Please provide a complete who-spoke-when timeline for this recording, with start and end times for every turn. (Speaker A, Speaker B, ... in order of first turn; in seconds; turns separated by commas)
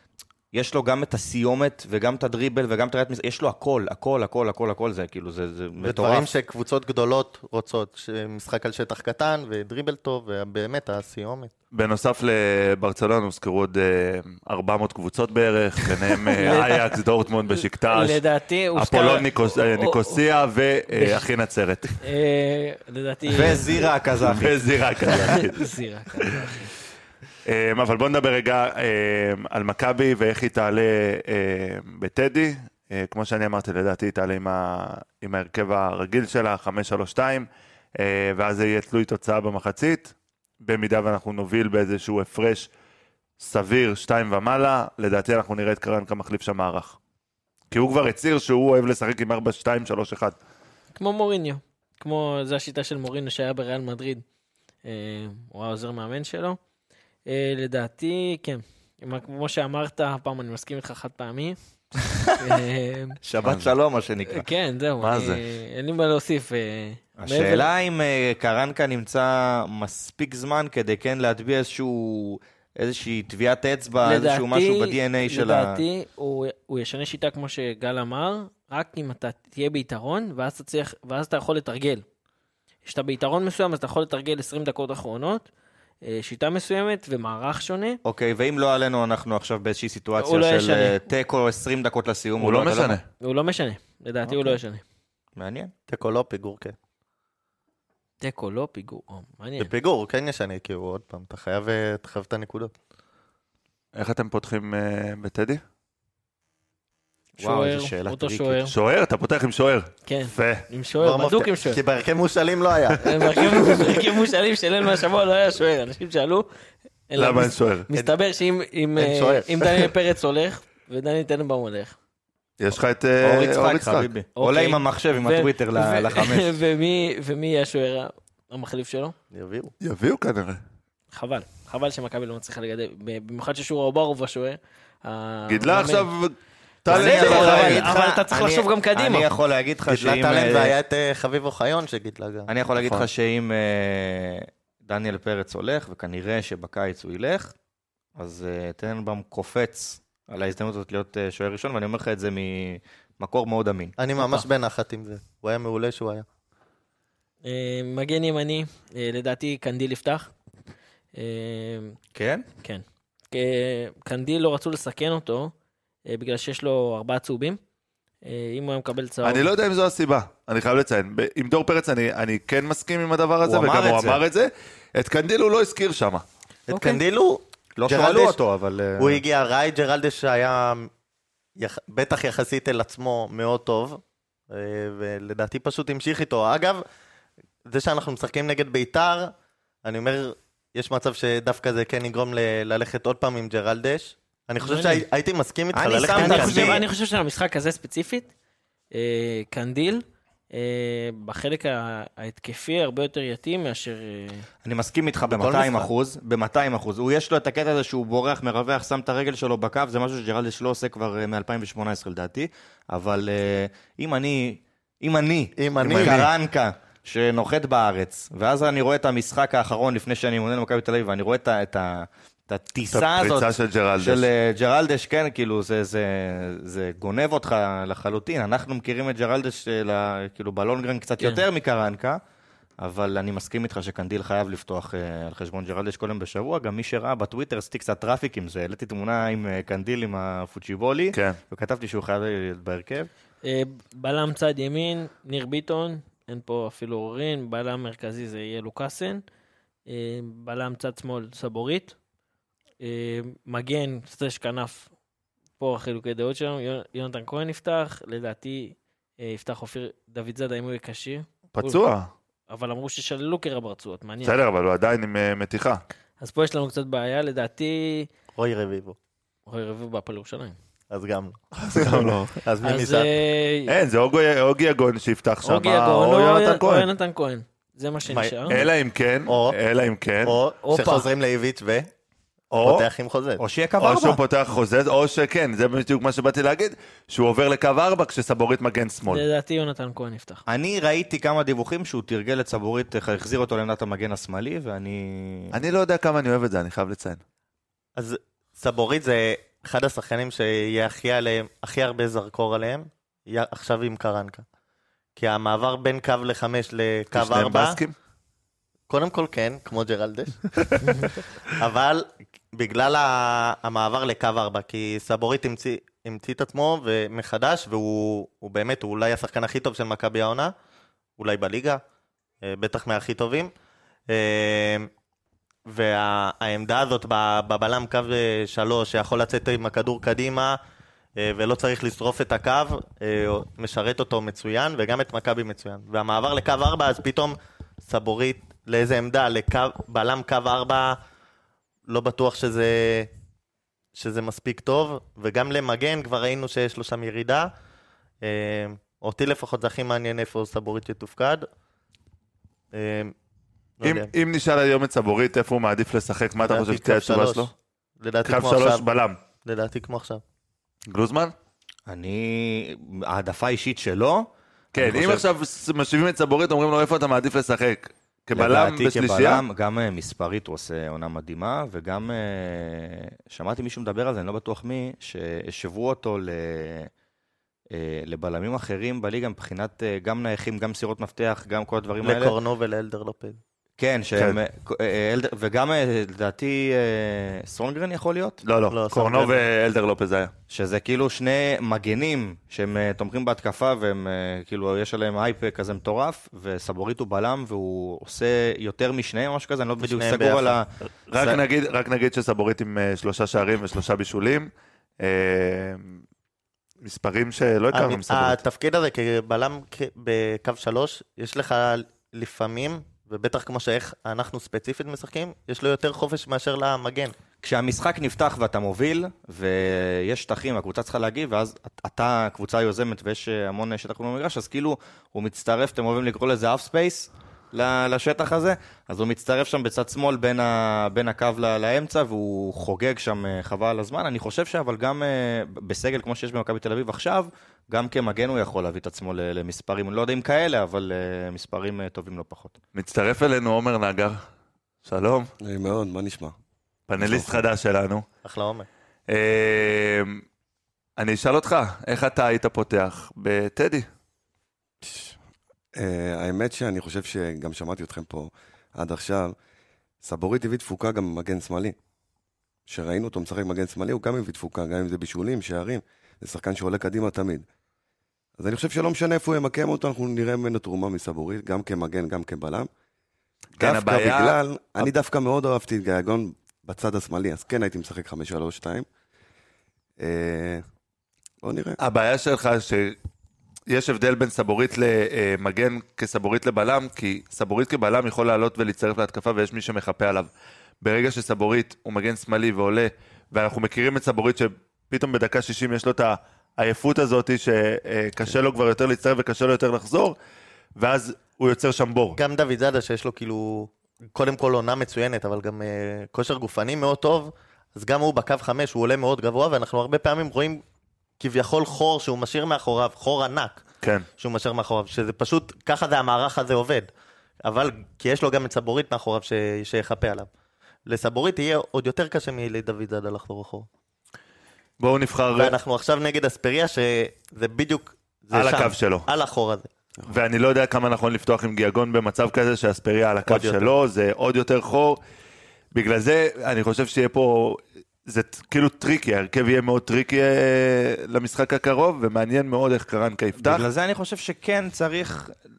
Speaker A: 0.5-6.3, Speaker B: 5.8-11.5, Speaker C: 11.7-18.2, Speaker D: 16.3-16.9, Speaker D: 17.5-20.2, Speaker C: 18.8-22.0, Speaker D: 20.9-21.2, Speaker D: 22.0-23.9, Speaker A: 23.3-25.4, Speaker C: 24.2-25.6, Speaker D: 25.2-26.7, Speaker C: 27.5-42.7, Speaker C: 43.4-47.0, Speaker C: 47.7-50.4, Speaker D: 51.0-54.2, Speaker D: 54.9-56.6, Speaker D: 57.3-61.6, Speaker D: 62.2-63.2, Speaker A: 63.2-64.5, Speaker C: 63.5-63.7, Speaker D: 64.3-67.7, Speaker C: 65.0-65.4, Speaker A: 67.2-75.8, Speaker D: 74.0-82.0, Speaker D: 82.8-85.5, Speaker D: 86.0-88.0, Speaker A: 88.0-93.0, Speaker D: 90.2-91.0, Speaker C: 92.4-93.1, Speaker D: 93.2-94.8, Speaker A: 95.4-95.7, Speaker B: 95.9-96.8, Speaker D: 98.2-99.7, Speaker B: 99.6-102.8, Speaker C: 103.9-105.6, Speaker A: 107.4-108.6, Speaker D: 107.4-108.7, Speaker C: 108.7-110.7, Speaker D: 110.1-111.8, Speaker B: 111.0-113.0, Speaker D: 113.0-116.5, Speaker D: 117.1-122.0, Speaker C: 117.2-117.9, Speaker B: 119.0-119.9, Speaker C: 122.6-124.1, Speaker A: 123.2-126.6, Speaker D: 124.4-129.2, Speaker B: 129.3-129.7, Speaker C: 129.8-130.6, Speaker D: 131.1-136.1, Speaker C: 135.5-137.9, Speaker D: 136.9-139.3, Speaker A: 136.9-140.7, Speaker B: 139.9-142.5, Speaker A: 142.5-147.5, Speaker C: 142.8-143.1, Speaker A: 148.2-154.0, Speaker B: 154.0-156.2, Speaker D: 157.4-160.3, Speaker D: 161.2-162.0, Speaker A: 162.1-162.5, Speaker D: 162.6-165.5, Speaker D: 166.1-167.6, Speaker D: 168.2-169.5, Speaker C: 169.2-176.2, Speaker A: 173.4-174.2, Speaker B: 176.7-178.4, Speaker D: 176.7-177.0, Speaker A: 177.8-179.2, Speaker B: 179.0-180.9, Speaker B: 181.6-186.8, Speaker B: 187.7-189.3, Speaker B: 189.8-196.8, Speaker D: 194.6-195.1, Speaker A: 195.7-196.8, Speaker D: 196.1-198.3, Speaker D: 198.9-204.5, Speaker A: 204.6-232.2, Speaker B: 205.2-205.9, Speaker B: 215.6-216.3, Speaker C: 215.8-216.3, Speaker C: 222.9-224.3, Speaker A: 232.8-243.1, Speaker C: 241.1-241.4, Speaker D: 243.4-249.2, Speaker D: 249.9-251.9, Speaker D: 252.8-254.9, Speaker D: 255.6-261.8, Speaker C: 261.6-262.1, Speaker D: 262.5-264.4, Speaker C: 264.2-265.8, Speaker D: 266.2-268.1, Speaker B: 268.4-269.0, Speaker D: 269.5-270.6, Speaker B: 270.9-273.1, Speaker C: 271.5-272.4, Speaker D: 272.6-273.7, Speaker C: 273.7-276.9, Speaker D: 275.4-278.6, Speaker B: 278.1-278.7, Speaker C: 278.5-280.4, Speaker B: 279.3-279.6, Speaker B: 280.2-281.9, Speaker D: 280.6-281.1, Speaker C: 282.5-282.9, Speaker B: 282.6-283.4, Speaker A: 283.4-284.2, Speaker C: 283.8-289.2, Speaker D: 289.1-290.4, Speaker A: 290.5-295.5, Speaker C: 295.5-297.2, Speaker B: 298.0-304.4, Speaker B: 305.2-307.8, Speaker C: 307.1-307.9, Speaker B: 308.9-320.5, Speaker B: 321.2-321.8, Speaker B: 322.4-323.5, Speaker B: 324.1-324.9, Speaker B: 325.7-330.6, Speaker B: 331.2-341.0, Speaker B: 341.9-343.1, Speaker B: 343.9-347.5, Speaker B: 348.2-351.4, Speaker B: 352.7-353.1, Speaker B: 353.8-354.1, Speaker C: 353.8-357.5, Speaker B: 356.4-358.9, Speaker C: 358.2-359.2, Speaker B: 359.4-360.2, Speaker C: 360.9-361.3, Speaker A: 361.9-365.2, Speaker C: 364.7-369.4, Speaker A: 368.4-376.9, Speaker A: 377.7-382.3, Speaker B: 382.0-383.4, Speaker A: 383.8-388.4, Speaker C: 388.4-390.3, Speaker B: 388.7-389.3, Speaker A: 390.5-401.4, Speaker B: 399.8-400.6, Speaker C: 401.1-406.0, Speaker C: 406.8-408.4, Speaker B: 407.7-417.1, Speaker A: 417.4-442.6, Speaker C: 442.7-444.2, Speaker C: 444.8-445.3, Speaker E: 445.4-446.3, Speaker C: 446.9-448.1, Speaker E: 447.0-447.4, Speaker B: 448.2-448.7, Speaker C: 449.1-450.2, Speaker C: 451.0-453.9, Speaker E: 454.8-455.2, Speaker E: 455.8-459.4, Speaker E: 460.0-461.8, Speaker E: 462.7-467.4, Speaker E: 468.4-472.7, Speaker C: 473.6-474.9, Speaker E: 473.6-478.9, Speaker E: 480.0-480.6, Speaker E: 481.4-481.8, Speaker C: 481.8-483.0, Speaker C: 483.7-490.3, Speaker C: 490.8-500.2, Speaker C: 500.8-502.2, Speaker B: 502.2-510.6, Speaker B: 511.2-513.6, Speaker C: 513.8-514.1, Speaker B: 514.2-516.9, Speaker B: 517.4-520.3, Speaker B: 520.9-523.7, Speaker C: 524.8-525.6, Speaker B: 525.3-529.7, Speaker C: 528.3-529.1, Speaker C: 530.1-535.0, Speaker B: 533.3-533.7, Speaker C: 535.7-543.6, Speaker A: 543.4-545.4